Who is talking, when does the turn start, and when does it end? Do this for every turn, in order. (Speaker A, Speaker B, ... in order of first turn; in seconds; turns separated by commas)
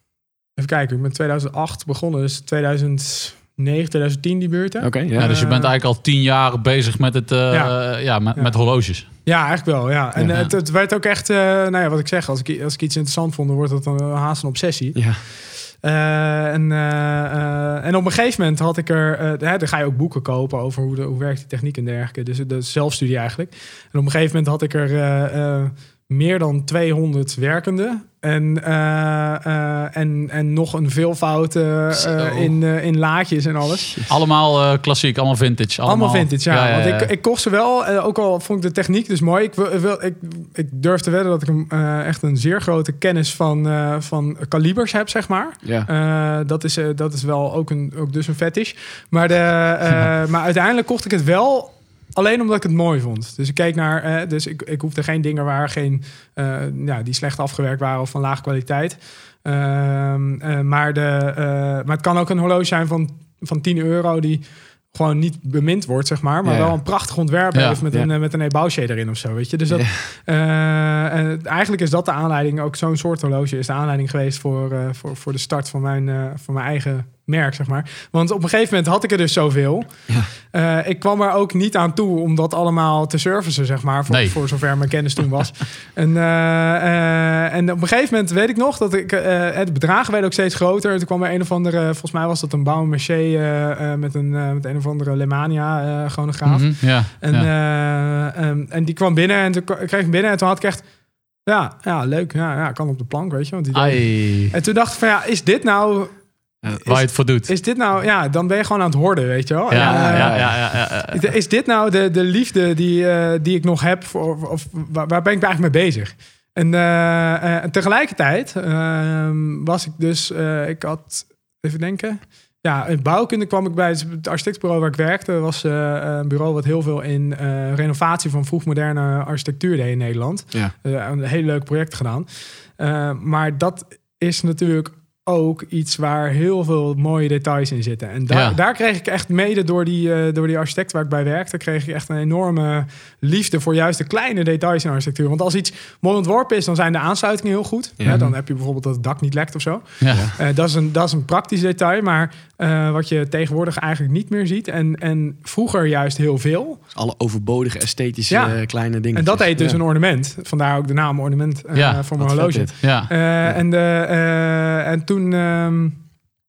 Speaker A: 0.6-5.7, Speaker B: 4.8-5.3, Speaker C: 5.2-9.1, Speaker A: 7.5-7.7, Speaker A: 8.3-34.0, Speaker B: 14.9-15.2, Speaker C: 32.0-32.5, Speaker C: 34.1-37.1, Speaker A: 35.8-100.8, Speaker B: 45.6-45.9, Speaker B: 66.4-66.8, Speaker C: 67.5-67.8, Speaker B: 69.7-70.0, Speaker C: 84.1-84.4, Speaker C: 96.4-97.5, Speaker A: 101.4-106.1, Speaker C: 103.7-104.5, Speaker A: 106.7-156.8, Speaker C: 106.8-107.5, Speaker C: 109.7-111.2, Speaker B: 109.7-110.6, Speaker C: 138.3-138.6, Speaker C: 148.1-148.3, Speaker C: 150.0-150.2, Speaker B: 150.1-150.3, Speaker B: 156.9-159.8, Speaker A: 158.3-166.0, Speaker C: 161.7-162.0, Speaker B: 162.2-162.7, Speaker C: 162.7-163.1